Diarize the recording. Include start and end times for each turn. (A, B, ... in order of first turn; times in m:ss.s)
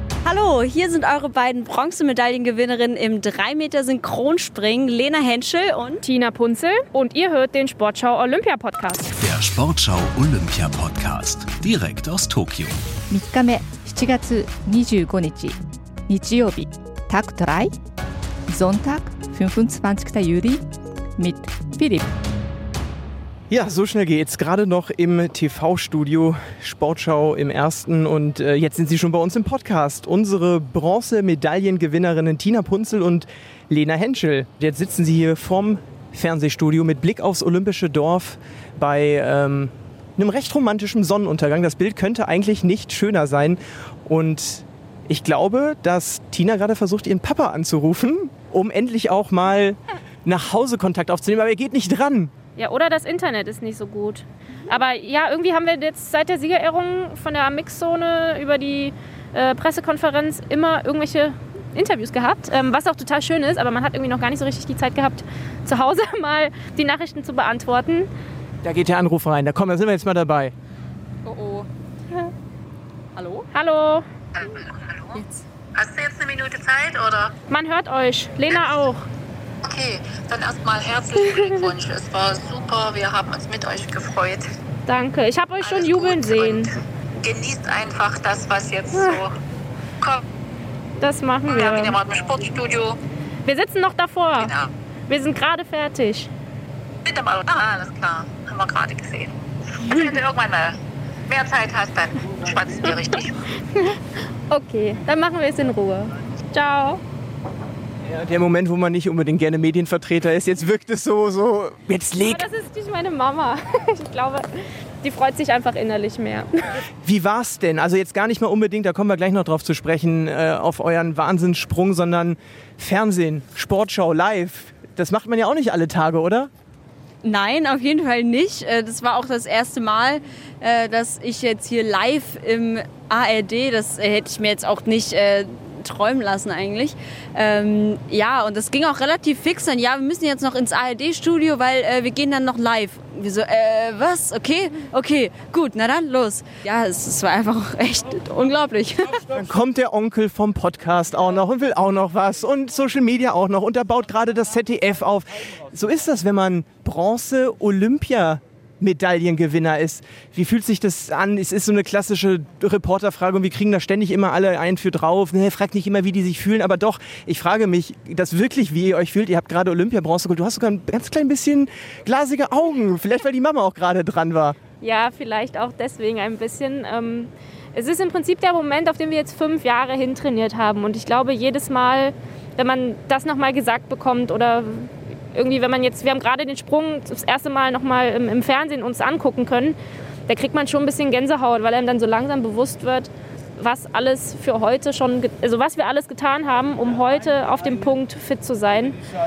0:00.2-0:06.0 A
0:06.0-0:09.1 B
0:09.2-0:12.8 C
0:13.1-0:17.7 D
0:18.5-0:20.6 D
0:21.2-0:22.0 D
0:23.5-0:52.3 E
0:52.6-1:08.1 B
1:08.6-1:10.5 E
1:11.2-1:11.6 A
1:13.2-1:13.4 A
1:13.5-1:14.0 B
1:14.4-1:15.2 F
1:15.8-1:17.3 F
1:17.5-1:19.0 B
1:19.6-1:24.4 F
1:24.9-1:26.7 B
1:25.6-1:26.6 F
1:27.2-1:29.3 F
1:31.0-1:32.0 B
1:31.5-1:33.0 F
1:33.4-1:34.6 B
1:35.1-1:36.3 B
1:37.1-1:39.3 F
1:39.9-1:40.7 F
1:41.3-1:43.3 F
1:44.5-1:47.0 B
1:48.1-1:52.4 E
1:52.2-1:54.5 B
1:55.0-1:56.6 B
1:57.0-2:06.5 E
2:07.2-2:29.2 A
2:29.4-2:54.6 E
2:54.8-3:09.8 B
3:10.3-3:19.0 B